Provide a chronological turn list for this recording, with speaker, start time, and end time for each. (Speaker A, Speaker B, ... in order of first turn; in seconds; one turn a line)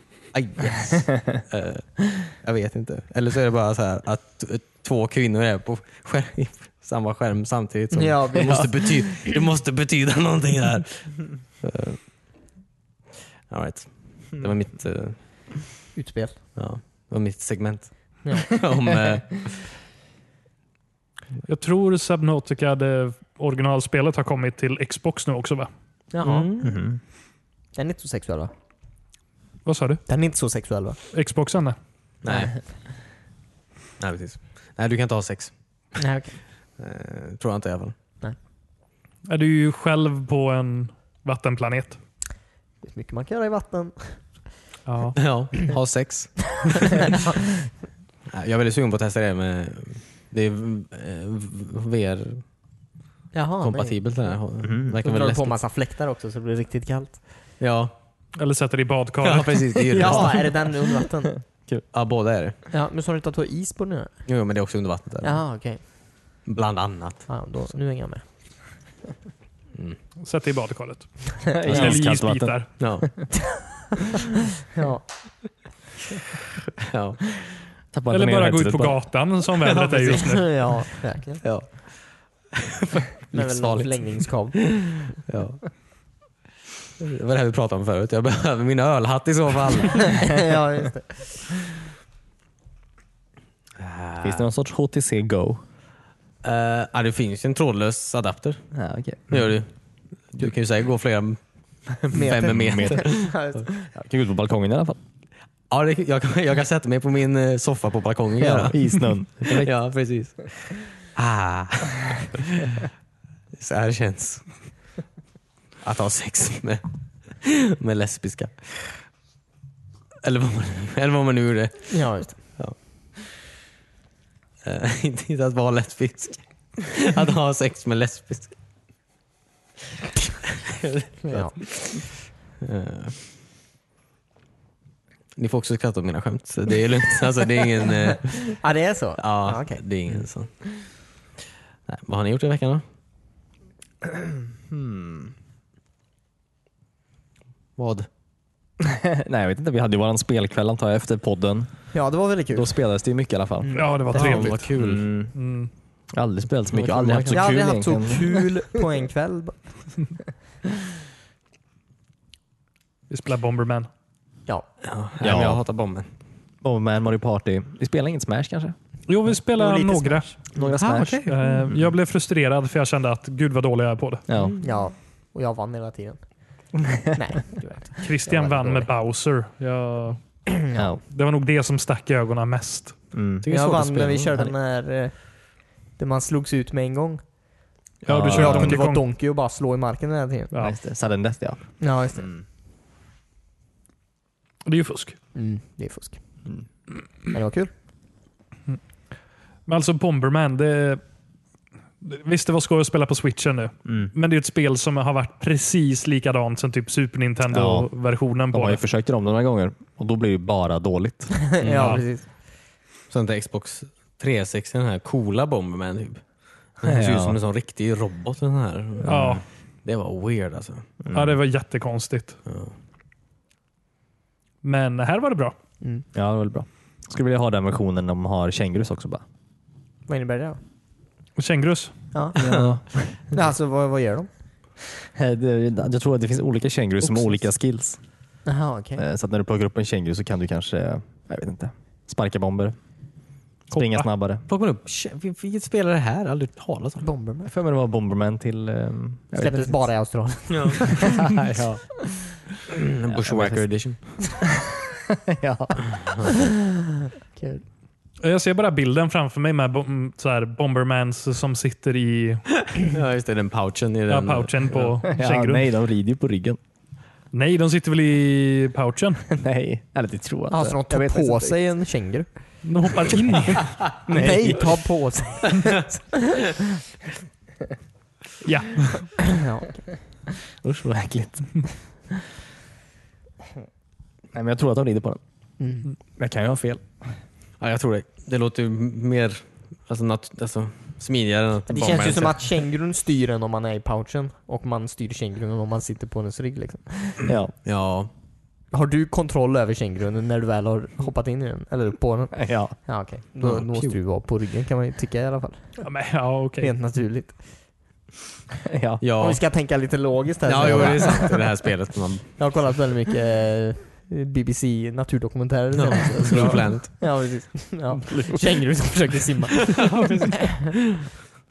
Speaker A: 0.3-12.0
Speaker B: 7.9-9.2
Speaker A: 13.5-15.2
Speaker B: 15.9-16.4
Speaker A: 16.6-19.7
Speaker B: 18.2-18.6
Speaker C: 21.4-25.7
Speaker B: 26.1-26.7
Speaker A: 26.2-26.7
Speaker D: 26.6-27.0
Speaker B: 27.7-28.5
Speaker C: 29.6-30.0
Speaker B: 30.1-31.0
Speaker C: 31.1-31.8
Speaker A: 32.2-32.6
Speaker A: 34.0-35.5
Speaker B: 36.0-36.4
Speaker A: 36.8-37.9
Speaker C: 39.3-42.0
Speaker B: 42.8-44.2
Speaker C: 44.9-45.2
Speaker A: 45.2-47.1
Speaker B: 47.0-47.4
Speaker A: 48.3-52.4
Speaker B: 53.3-54.0
Speaker A: 53.6-55.6
Speaker D: 54.6-54.9
Speaker B: 55.0-57.2
Speaker A: 57.6-57.9
Speaker C: 58.4-59.7
Speaker A: 59.2-60.6
Speaker B: 59.9-61.3
Speaker A: 61.9-62.5
Speaker B: 62.7-64.1
Speaker A: 64.3-65.4
Speaker B: 65.2-65.8
Speaker A: 66.5-67.3
Speaker B: 67.3-68.2
Speaker C: 70.2-72.7
Speaker D: 71.5-73.0
Speaker A: 72.8-73.2
Speaker B: 74.7-75.1
Speaker A: 76.9-77.4
Speaker D: 77.9-79.0
Speaker C: 78.1-80.5
Speaker A: 79.6-80.3
Speaker B: 80.2-81.4
Speaker A: 81.4-85.7
Speaker B: 83.3-85.1
Speaker A: 87.0-90.2
Speaker B: 90.1-91.5
Speaker A: 93.8-94.5
Speaker D: 94.2-95.6
Speaker A: 96.4-98.6
Speaker D: 98.7-99.5
Speaker A: 99.3-99.7
Speaker A: 100.3-101.4
Speaker A: 102.0-103.3
Speaker D: 102.0-105.0
Speaker B: 102.1-103.9
Speaker A: 105.7-112.8
Speaker D: 108.4-109.7
Speaker A: 113.5-114.5
Speaker A: 115.8-116.8
Speaker A: 117.4-119.0
Speaker A: 120.2-123.2
Speaker B: 121.9-122.4
Speaker A: 124.6-128.5
Speaker A: 130.7-133.2
Speaker B: 131.2-131.7
Speaker A: 135.3-138.6
Speaker B: 138.6-139.8
Speaker A: 139.2-140.8
Speaker A: 141.9-142.8
Speaker D: 144.7-145.3
Speaker A: 147.8-148.1
Speaker D: 148.8-151.7
Speaker B: 151.9-152.8
Speaker D: 152.5-155.3
Speaker B: 153.6-154.0
Speaker C: 153.7-154.7
Speaker A: 154.1-155.0
Speaker C: 155.3-155.7
Speaker D: 156.1-158.4
Speaker A: 156.7-157.7
Speaker B: 157.3-159.9
Speaker C: 163.1-163.9
Speaker A: 164.8-166.1
Speaker D: 165.2-165.6
Speaker D: 166.6-168.7
Speaker C: 169.1-170.3
Speaker B: 169.6-170.8
Speaker D: 170.5-171.9
Speaker A: 170.7-171.3
Speaker C: 171.2-174.2
Speaker D: 174.3-174.6
Speaker B: 174.6-176.2
Speaker B: 177.1-178.9
Speaker C: 178.0-180.5
Speaker D: 180.7-181.0
Speaker C: 181.1-183.0
Speaker D: 183.1-183.5
Speaker A: 183.4-184.5
Speaker B: 183.5-187.2
Speaker C: 188.0-189.0
Speaker D: 188.1-188.9
Speaker B: 188.3-190.5
Speaker D: 190.6-192.4
Speaker B: 191.8-192.4
Speaker C: 194.6-195.2
Speaker B: 195.3-196.2
Speaker B: 197.3-197.7
Speaker C: 199.7-201.0
Speaker C: 202.0-208.8
Speaker D: 203.8-204.1
Speaker D: 207.5-211.7
Speaker B: 211.3-212.2
Speaker C: 211.7-212.0
Speaker A: 213.1-216.2
Speaker A: 216.8-219.3
Speaker D: 216.8-217.4
Speaker D: 219.0-219.4
Speaker C: 219.0-219.4
Speaker A: 219.8-220.8
Speaker D: 221.0-221.4
Speaker C: 221.1-222.4
Speaker A: 222.4-222.7
Speaker C: 224.6-225.5
Speaker B: 225.8-226.1
Speaker D: 226.1-229.2
Speaker B: 230.1-230.6
Speaker C: 231.3-231.9
Speaker B: 232.1-234.3
Speaker D: 232.3-233.2
Speaker D: 235.1-238.0
Speaker B: 238.4-239.0
Speaker D: 239.0-242.8
Speaker C: 243.7-244.1
Speaker D: 243.7-244.4
Speaker A: 244.5-247.1
Speaker B: 247.0-247.5
Speaker D: 247.4-249.9
Speaker B: 249.4-251.2
Speaker A: 250.5-250.8
Speaker D: 251.0-251.8
Speaker A: 252.7-254.1
Speaker D: 253.1-254.2
Speaker D: 255.3-255.9
Speaker A: 256.0-256.3
Speaker B: 257.3-257.6
Speaker C: 258.2-262.4
Speaker A: 262.8-264.9
Speaker C: 264.1-265.7
Speaker D: 265.1-266.6
Speaker C: 267.3-269.2
Speaker D: 269.3-271.6
Speaker B: 270.5-272.4
Speaker C: 272.6-273.7
Speaker B: 274.1-276.6
Speaker D: 274.1-274.8
Speaker C: 278.4-279.1
Speaker B: 279.3-280.0
Speaker D: 280.6-281.7
Speaker D: 284.3-285.2
Speaker B: 285.6-285.9
Speaker D: 286.2-286.8
Speaker A: 287.6-292.5
Speaker B: 291.7-297.2
Speaker D: 297.2-297.5
Speaker A: 297.3-298.1
Speaker B: 298.7-305.9
Speaker D: 302.3-302.8
Speaker A: 303.4-304.0
Speaker C: 305.8-306.7
Speaker B: 306.6-307.4
Speaker D: 308.7-309.0
Speaker A: 309.0-309.4
Speaker B: 309.2-311.7
Speaker A: 310.4-312.6
Speaker B: 312.4-319.9
Speaker A: 315.7-317.0
Speaker D: 318.0-318.5
Speaker A: 319.7-320.8